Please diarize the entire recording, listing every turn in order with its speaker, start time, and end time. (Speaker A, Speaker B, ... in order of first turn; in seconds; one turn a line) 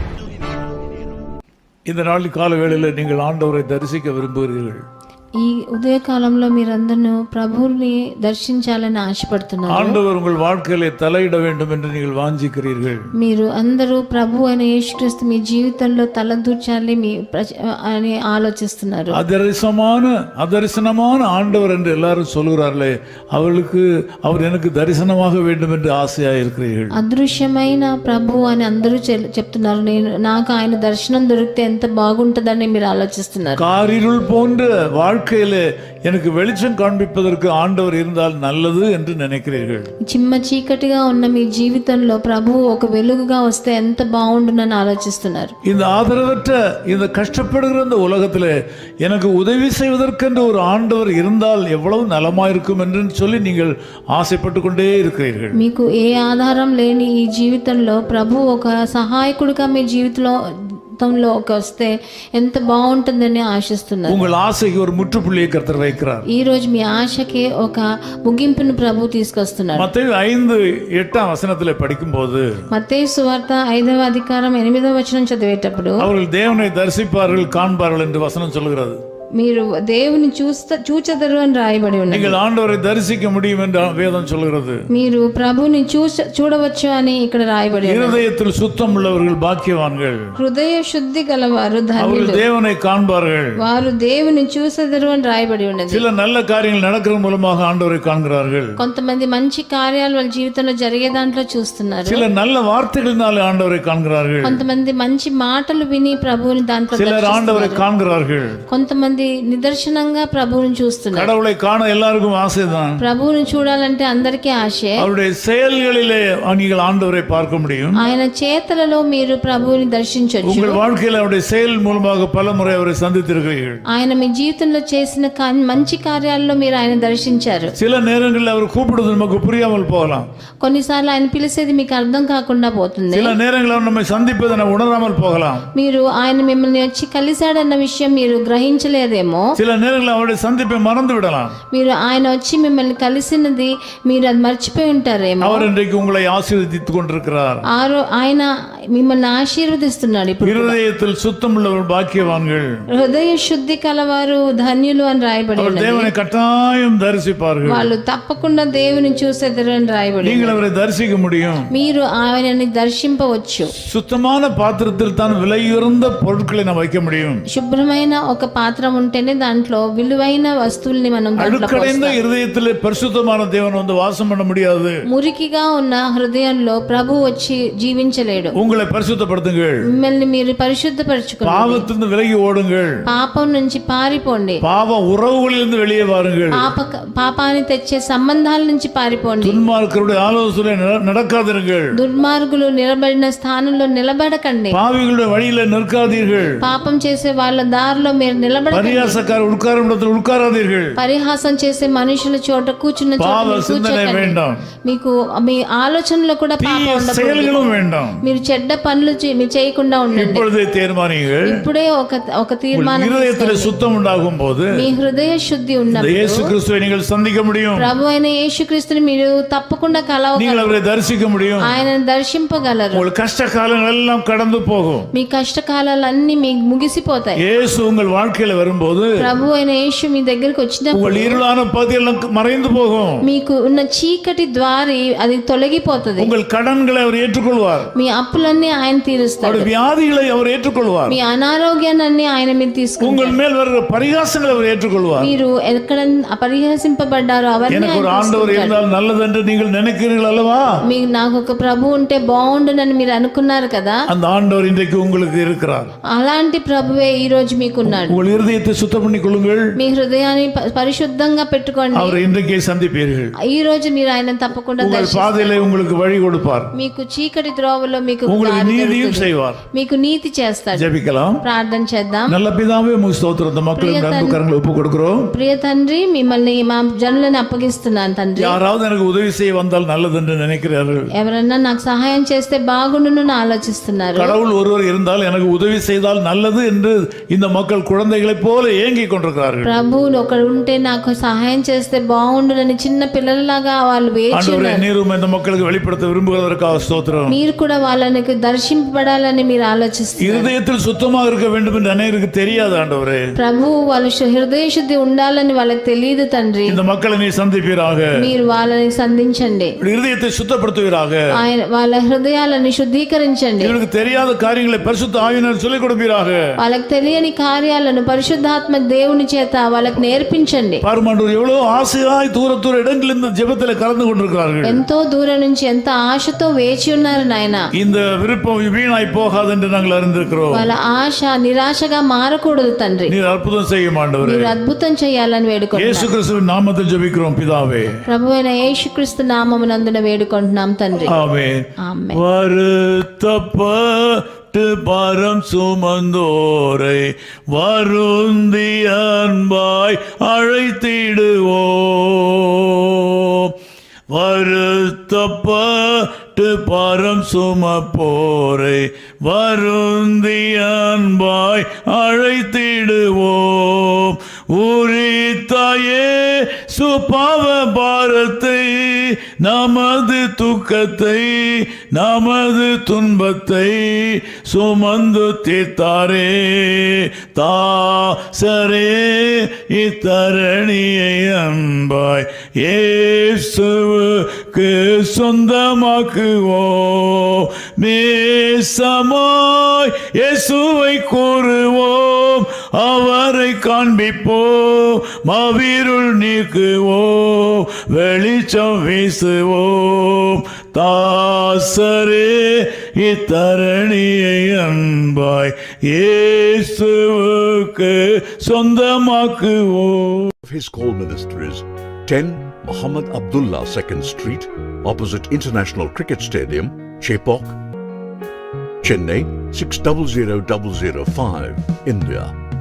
Speaker A: 1.9-4.8
Speaker B: 5.4-10.0
Speaker A: 9.7-13.0
Speaker B: 13.1-19.2
Speaker A: 19.1-26.9
Speaker B: 26.9-33.6
Speaker A: 33.6-39.9
Speaker B: 40.0-45.5
Speaker A: 45.6-55.6
Speaker B: 55.5-64.2
Speaker A: 64.1-66.2
Speaker B: 66.3-69.9
Speaker A: 69.8-72.6
Speaker B: 72.7-76.1
Speaker A: 76.0-79.0
Speaker B: 79.4-82.4
Speaker A: 82.1-84.8
Speaker B: 84.9-88.2
Speaker A: 87.8-90.2
Speaker B: 90.4-92.4
Speaker A: 92.0-93.5
Speaker B: 93.6-96.0
Speaker A: 95.9-98.7
Speaker B: 98.8-102.2
Speaker A: 102.1-104.6
Speaker B: 104.4-107.8
Speaker A: 107.0-108.6
Speaker B: 108.7-111.3
Speaker A: 111.1-113.0
Speaker B: 113.0-115.0
Speaker A: 115.0-118.0
Speaker B: 118.0-120.8
Speaker A: 120.4-123.8
Speaker B: 123.9-127.7
Speaker A: 127.8-130.3
Speaker B: 130.6-133.3
Speaker A: 133.1-135.6
Speaker B: 135.7-139.5
Speaker A: 139.6-141.6
Speaker B: 141.7-145.7
Speaker A: 145.4-147.6
Speaker B: 147.7-150.8
Speaker A: 150.4-152.7
Speaker B: 152.9-156.1
Speaker A: 155.6-157.9
Speaker B: 157.6-160.6
Speaker A: 160.2-161.7
Speaker B: 161.7-163.7
Speaker A: 163.8-167.4
Speaker B: 167.5-172.2
Speaker A: 171.4-174.9
Speaker B: 175.1-178.6
Speaker A: 178.5-179.8
Speaker B: 179.9-181.9
Speaker A: 181.4-182.9
Speaker B: 183.1-184.6
Speaker A: 184.6-186.7
Speaker B: 186.5-189.6
Speaker A: 189.4-191.9
Speaker B: 191.9-194.8
Speaker A: 194.7-196.6
Speaker B: 196.6-199.2
Speaker A: 198.7-200.9
Speaker B: 201.0-207.6
Speaker A: 203.2-204.6
Speaker A: 206.6-208.2
Speaker B: 208.2-210.4
Speaker A: 210.1-211.7
Speaker B: 211.4-213.7
Speaker A: 212.7-214.8
Speaker B: 214.7-216.5
Speaker A: 215.9-217.9
Speaker B: 217.8-220.8
Speaker A: 220.3-221.7
Speaker B: 221.6-223.1
Speaker A: 222.9-225.1
Speaker B: 225.1-227.4
Speaker A: 227.4-229.1
Speaker B: 229.2-231.4
Speaker A: 230.9-233.2
Speaker B: 233.2-236.3
Speaker A: 236.2-237.9
Speaker B: 237.9-239.7
Speaker A: 239.4-241.2
Speaker B: 241.1-243.4
Speaker A: 243.0-245.3
Speaker B: 245.2-248.8
Speaker A: 247.7-250.7
Speaker B: 250.8-254.0
Speaker A: 254.1-255.9
Speaker B: 256.1-258.2
Speaker A: 257.8-259.7
Speaker B: 259.8-262.2
Speaker A: 261.9-263.3
Speaker B: 263.4-265.6
Speaker A: 264.8-266.7
Speaker B: 266.7-270.9
Speaker A: 268.2-269.6
Speaker A: 270.7-271.4
Speaker B: 271.4-272.4
Speaker A: 272.3-275.3
Speaker B: 273.7-274.4
Speaker B: 275.3-278.6
Speaker A: 278.4-281.1
Speaker B: 281.1-284.4
Speaker A: 284.2-289.7
Speaker B: 289.6-294.8
Speaker A: 294.3-297.4
Speaker B: 297.3-300.5
Speaker A: 300.2-303.3
Speaker B: 303.4-306.8
Speaker A: 306.7-308.2
Speaker B: 308.2-309.7
Speaker A: 309.8-311.2
Speaker B: 311.4-313.8
Speaker A: 313.6-316.5
Speaker B: 316.6-320.8
Speaker A: 320.8-324.8
Speaker B: 324.6-327.6
Speaker A: 327.8-330.7
Speaker B: 330.5-333.1
Speaker A: 333.1-334.5
Speaker B: 334.2-336.1
Speaker A: 335.7-338.0
Speaker B: 338.1-341.2
Speaker A: 341.0-353.5
Speaker B: 341.8-342.2
Speaker A: 354.1-410.3
Speaker C: 410.4-417.6
Speaker C: 418.8-422.3